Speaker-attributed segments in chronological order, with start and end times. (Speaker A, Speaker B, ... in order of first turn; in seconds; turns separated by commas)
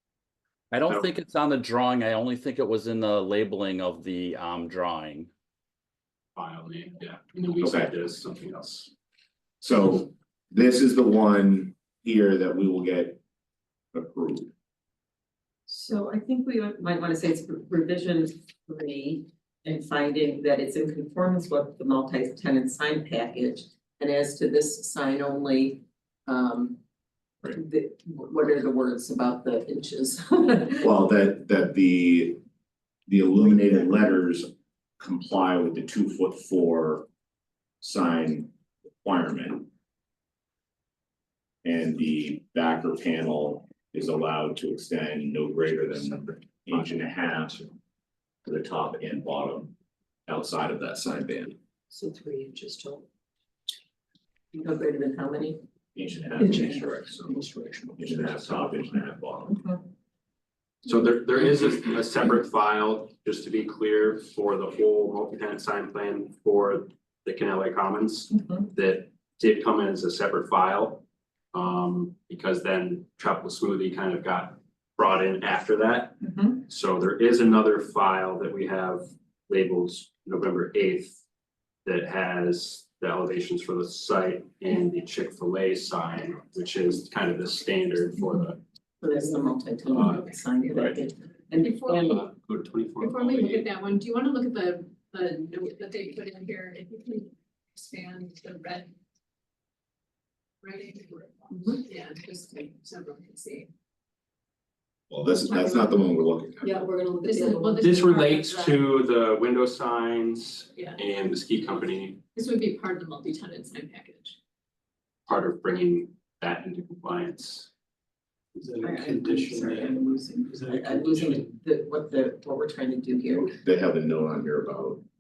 Speaker A: 0.7-5.3, Speaker B: 6.3-8.9, Speaker C: 7.6-7.9, Speaker C: 9.6-13.2, Speaker C: 13.9-14.5, Speaker D: 15.7-26.8, Speaker D: 27.4-30.9, Speaker C: 30.8-32.4, Speaker C: 33.1-37.0, Speaker C: 37.8-39.7, Speaker C: 41.6-47.6, Speaker C: 48.4-49.7, Speaker C: 50.3-51.6, Speaker D: 52.1-53.0, Speaker D: 54.5-55.6, Speaker C: 55.9-57.3, Speaker C: 58.0-59.6, Speaker D: 59.5-59.8, Speaker B: 60.8-81.2, Speaker D: 68.4-68.7, Speaker D: 76.2-76.6, Speaker B: 81.8-88.6, Speaker D: 89.0-92.2, Speaker B: 89.9-90.2, Speaker E: 91.5-92.2, Speaker B: 92.1-93.7, Speaker E: 93.0-98.9, Speaker E: 100.6-103.7, Speaker D: 101.5-101.9, Speaker C: 105.1-106.9, Speaker E: 105.3-108.8, Speaker D: 107.2-107.7, Speaker B: 107.7-112.2, Speaker E: 112.3-114.4, Speaker B: 115.3-117.7, Speaker F: 118.5-121.5, Speaker D: 118.8-123.6, Speaker C: 123.6-125.0